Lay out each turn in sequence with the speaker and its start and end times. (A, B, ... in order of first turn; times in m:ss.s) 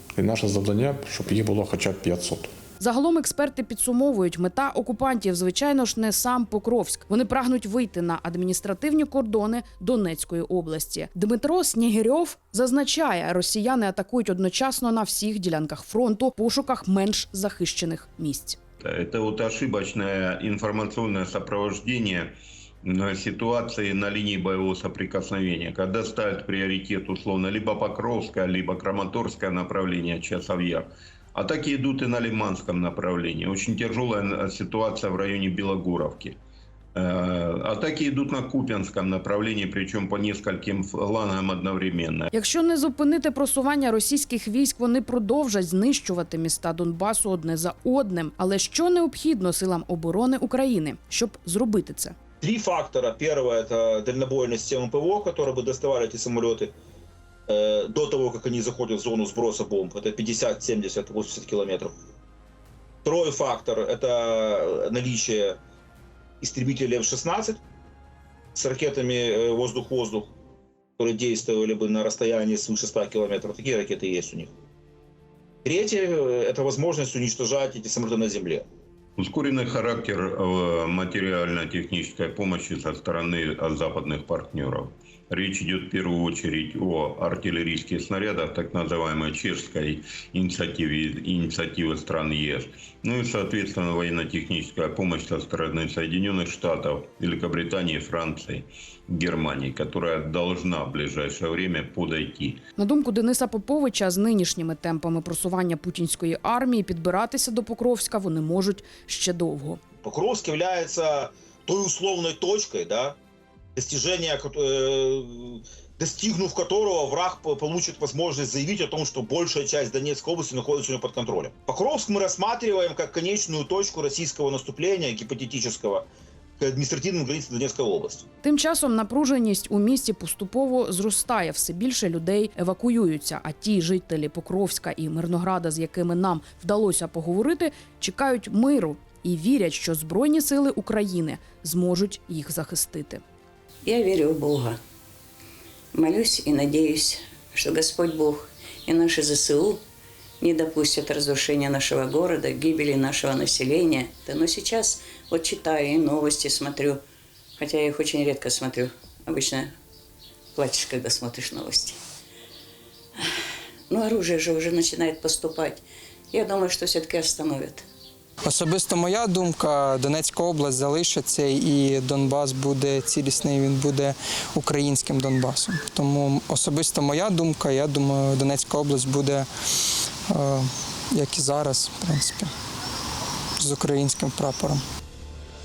0:00.2-0:02.5 A
0:02.8-0:18.6 B
0:18.9-0:22.3 C
0:22.9-0:36.4 C
0:37.0-0:42.3 C
0:42.3-0:52.2 B
0:52.4-0:56.7 D
0:57.5-1:01.9 D
1:03.0-1:05.6 D
1:06.4-1:07.6 D
1:08.6-1:10.3 D
1:11.0-1:14.5 D
1:15.6-1:18.6 D
1:19.2-1:42.6 C
1:42.8-1:49.8 B
1:50.0-1:53.2 D
1:53.8-2:06.1 D
2:06.6-2:08.3 D
2:08.4-2:23.2 B
2:23.8-2:24.8 E
2:25.9-2:29.8 E
2:30.4-2:37.0 E
2:37.6-2:39.7 E
2:40.6-2:42.0 E
2:43.9-2:47.9 E
2:48.4-2:59.5 F
3:00.3-3:02.5 F
3:03.6-3:04.8 F